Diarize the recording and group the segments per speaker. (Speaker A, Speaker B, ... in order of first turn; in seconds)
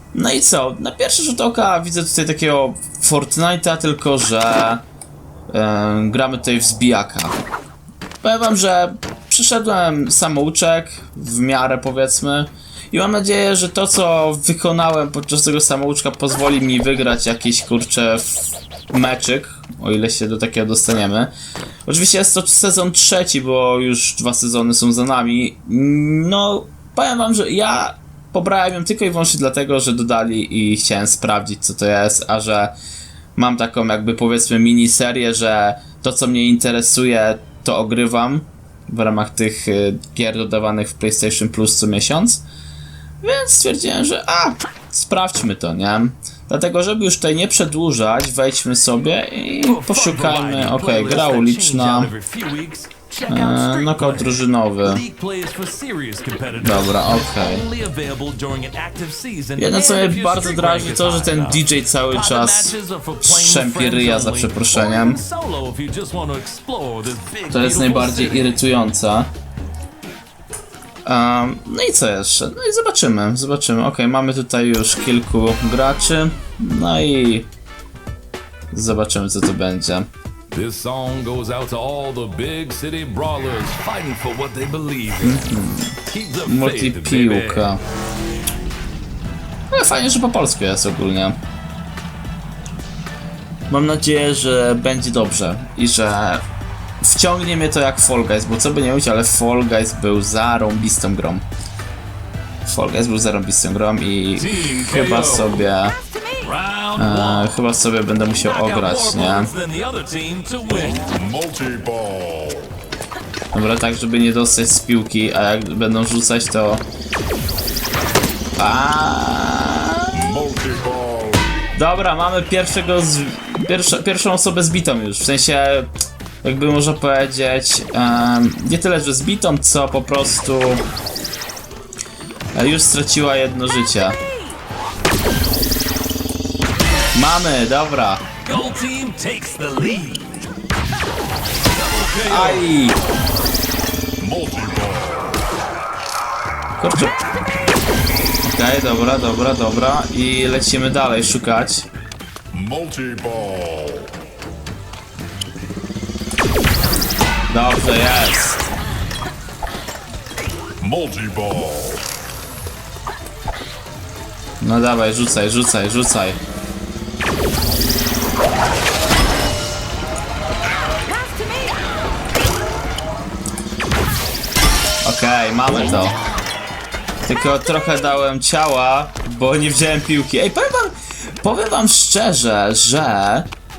Speaker A: 0.1-4.8, 5.5-7.4, 8.2-21.3, 21.9-32.8, 33.4-42.4, 43.2-52.1, 53.3-55.0, 56.6-57.7, 59.6-65.2, 67.5-69.3, 71.1-77.5, 78.7-80.1, 85.2-87.8, 89.7-91.4, 93.7-96.4, 97.0-101.5, 102.7-106.0, 107.0-109.5, 113.5-116.8, 118.6-120.2, 121.8-125.9, 126.4-130.8, 132.6-134.2, 137.1-138.2, 142.3-143.0, 146.8-147.2, 148.4-151.9, 157.5-158.6, 164.6-166.4, 175.0-176.2, 177.3-183.5
Speaker B: 49.6-68.6, 80.5-85.5, 86.1-87.7, 104.4-105.7, 106.4-107.5, 108.4-111.1, 138.4-140.5, 141.7-142.7
Speaker C: 111.1-112.7, 120.1-121.5, 144.2-145.5, 152.5-154.1, 160.8-162.1